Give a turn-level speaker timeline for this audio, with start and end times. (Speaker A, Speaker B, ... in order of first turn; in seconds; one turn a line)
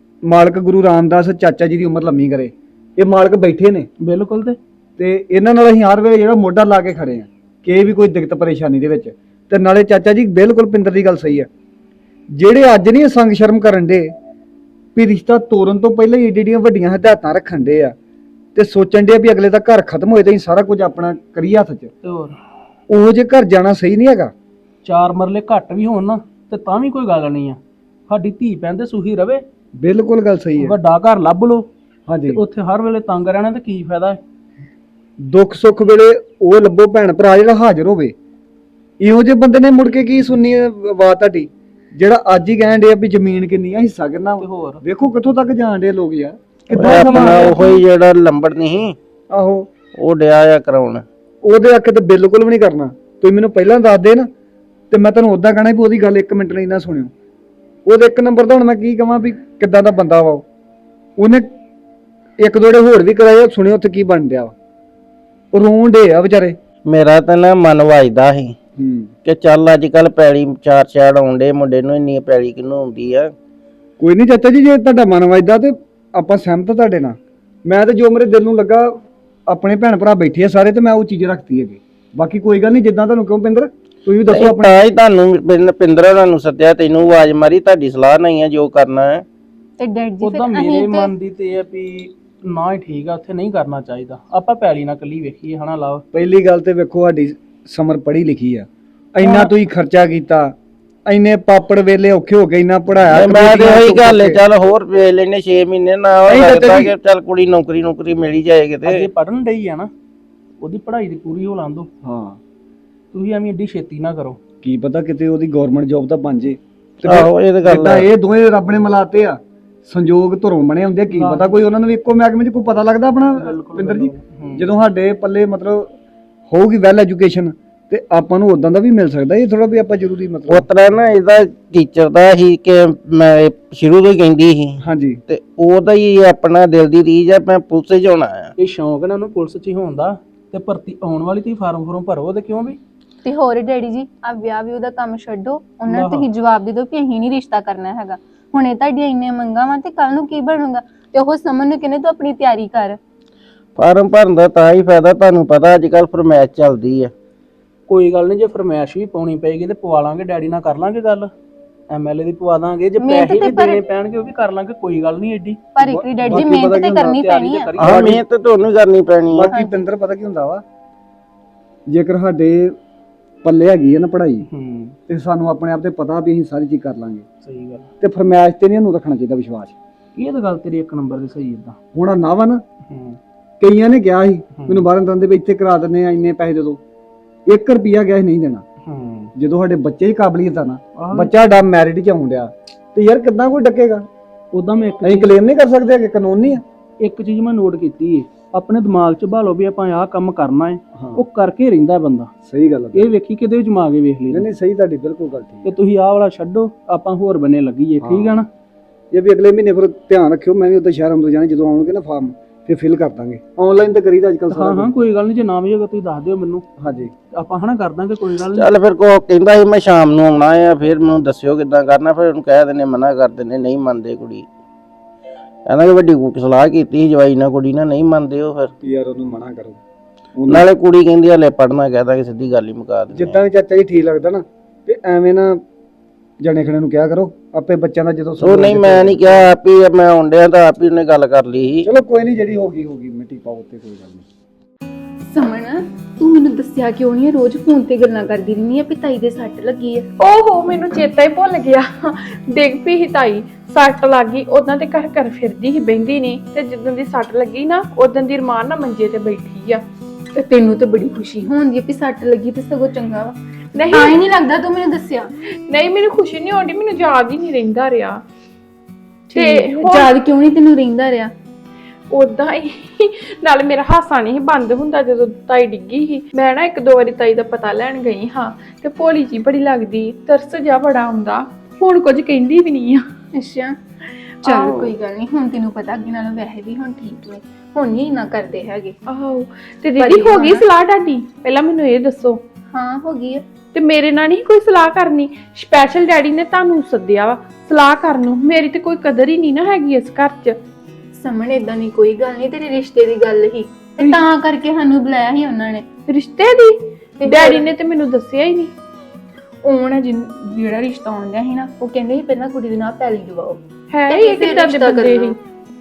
Speaker A: 0.2-3.9
Speaker B: 4.0-4.6
Speaker A: 5.0-11.5
Speaker A: 12.3-14.1
Speaker A: 14.9-17.9
Speaker A: 18.5-21.9
Speaker B: 22.0-22.3
Speaker A: 22.9-24.3
Speaker B: 24.8-29.4
Speaker A: 29.8-30.7
Speaker B: 30.6-31.7
Speaker A: 32.1-32.4
Speaker B: 32.3-34.2
Speaker A: 35.2-38.1
Speaker A: 39.0-47.6
Speaker B: 44.4-44.8
Speaker C: 46.7-49.0
Speaker B: 46.9-47.5
Speaker A: 49.3-49.7
Speaker C: 50.0-51.0
Speaker A: 51.4-54.3
Speaker A: 54.9-57.1
Speaker A: 57.9-60.4
Speaker A: 61.2-61.5
Speaker A: 62.4-64.5
Speaker A: 65.5-66.5
Speaker C: 66.9-68.5
Speaker A: 68.8-69.1
Speaker C: 69.2-73.3
Speaker A: 74.0-84.8
Speaker C: 84.3-89.2
Speaker D: 89.8-91.1
Speaker B: 90.2-96.0
Speaker A: 96.1-100.5
Speaker B: 99.2-99.5
Speaker A: 101.1-104.4
Speaker C: 103.1-109.1
Speaker A: 106.3-107.0
Speaker B: 108.8-109.9
Speaker B: 110.6-111.9
Speaker A: 112.0-112.4
Speaker B: 113.1-114.4
Speaker A: 114.6-125.9
Speaker C: 117.0-118.1
Speaker B: 121.1-121.5
Speaker B: 123.3-124.7
Speaker A: 126.5-130.7
Speaker C: 130.5-138.5
Speaker A: 134.8-135.2
Speaker B: 138.6-142.8
Speaker D: 143.2-153.0
Speaker B: 145.9-146.3
Speaker C: 153.8-157.1
Speaker B: 157.9-161.3
Speaker B: 161.9-165.6
Speaker D: 163.0-163.9
Speaker D: 165.7-167.7
Speaker A: 165.8-167.3
Speaker B: 167.2-168.2
Speaker C: 167.8-169.5
Speaker A: 167.8-168.2
Speaker A: 169.3-170.6
Speaker A: 171.9-172.7
Speaker A: 173.4-174.5
Speaker B: 174.5-174.9
Speaker A: 175.1-177.2
Speaker B: 177.4-177.8
Speaker A: 178.0-179.7
Speaker B: 180.2-181.8
Speaker A: 181.9-182.6
Speaker B: 182.9-183.2
Speaker A: 183.6-186.8
Speaker B: 184.6-184.8
Speaker A: 187.5-188.6
Speaker B: 188.8-189.3
Speaker A: 189.3-194.1
Speaker B: 191.0-191.3
Speaker B: 194.5-195.3
Speaker A: 195.0-196.6
Speaker B: 197.0-202.3
Speaker A: 200.9-201.2
Speaker A: 202.4-203.1
Speaker B: 202.9-204.5
Speaker A: 204.3-205.7
Speaker B: 205.6-208.5
Speaker A: 208.0-208.4
Speaker A: 209.1-214.9
Speaker B: 214.5-216.7
Speaker A: 216.8-217.1
Speaker B: 217.3-218.7
Speaker C: 218.5-224.5
Speaker C: 225.7-228.7
Speaker A: 228.8-229.8
Speaker A: 230.3-230.7
Speaker C: 230.5-233.4
Speaker A: 233.1-235.6
Speaker A: 236.4-239.5
Speaker C: 238.4-241.9
Speaker A: 241.8-244.2
Speaker D: 245.3-250.1
Speaker E: 250.2-259.8
Speaker D: 260.3-263.4
Speaker E: 263.7-264.2
Speaker D: 263.9-265.3
Speaker E: 265.5-268.2
Speaker E: 269.3-270.1
Speaker D: 269.3-271.3
Speaker E: 272.1-283.0
Speaker D: 283.3-283.8
Speaker D: 284.4-288.9
Speaker E: 284.4-284.9
Speaker E: 289.1-292.4
Speaker D: 290.0-290.6
Speaker D: 292.7-293.4
Speaker E: 293.7-300.6
Speaker D: 301.1-305.9
Speaker E: 306.1-308.7
Speaker D: 307.2-307.6
Speaker D: 309.6-315.4
Speaker E: 313.9-315.4